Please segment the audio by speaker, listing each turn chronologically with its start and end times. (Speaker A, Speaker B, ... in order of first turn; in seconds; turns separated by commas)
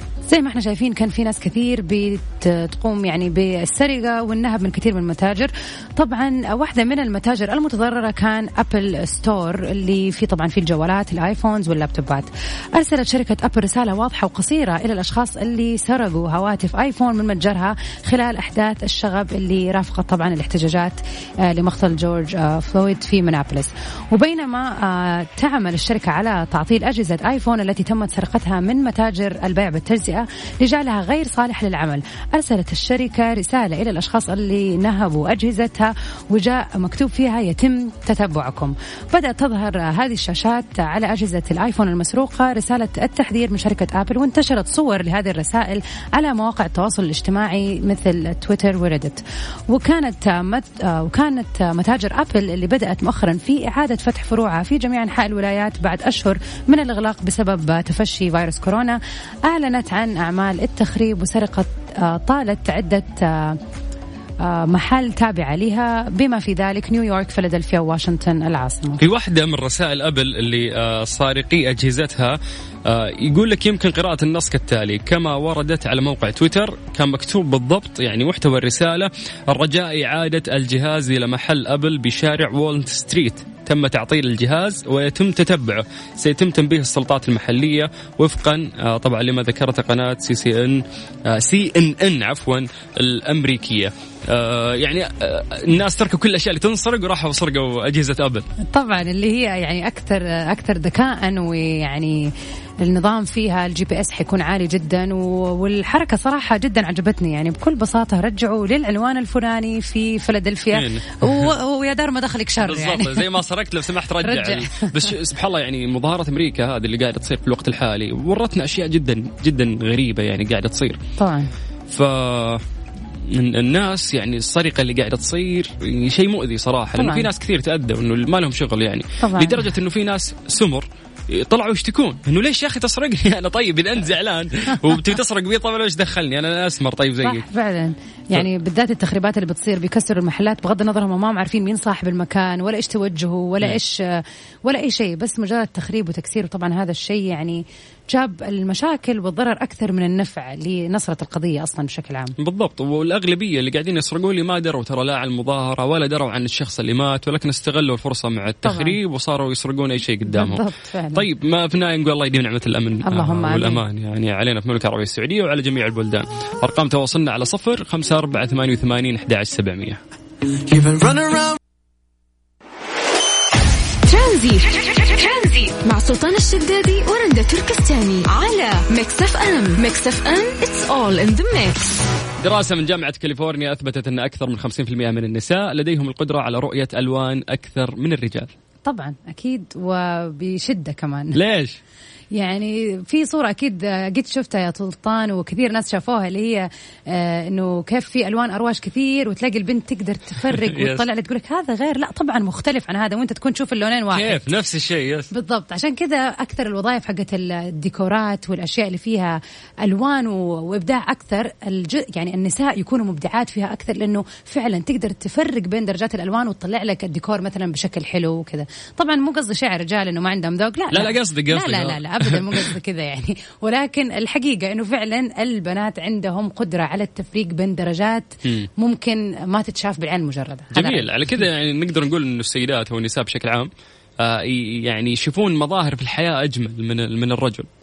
Speaker A: 0.3-63.6, Speaker A: 64.4-69.0, Speaker B: 69.0-98.5, Speaker A: 98.7-113.4, Speaker B: 110.7-111.5, Speaker B: 112.6-121.0, Speaker A: 114.2-115.1, Speaker A: 121.2-121.5, Speaker B: 121.9-122.6, Speaker B: 123.3-137.5, Speaker A: 127.0-127.3, Speaker A: 129.2-129.7, Speaker A: 137.2-152.3, Speaker B: 152.4-170.0, Speaker A: 158.6-159.0, Speaker A: 160.3-161.3, Speaker A: 163.1-163.8, Speaker C: 174.1-182.0, Speaker B: 182.4-188.5, Speaker A: 188.9-191.4, Speaker B: 191.3-191.8, Speaker A: 192.3-204.5, Speaker B: 200.4-201.1, Speaker B: 204.1-205.3, Speaker A: 205.3-231.1, Speaker B: 220.9-222.7, Speaker B: 230.7-237.7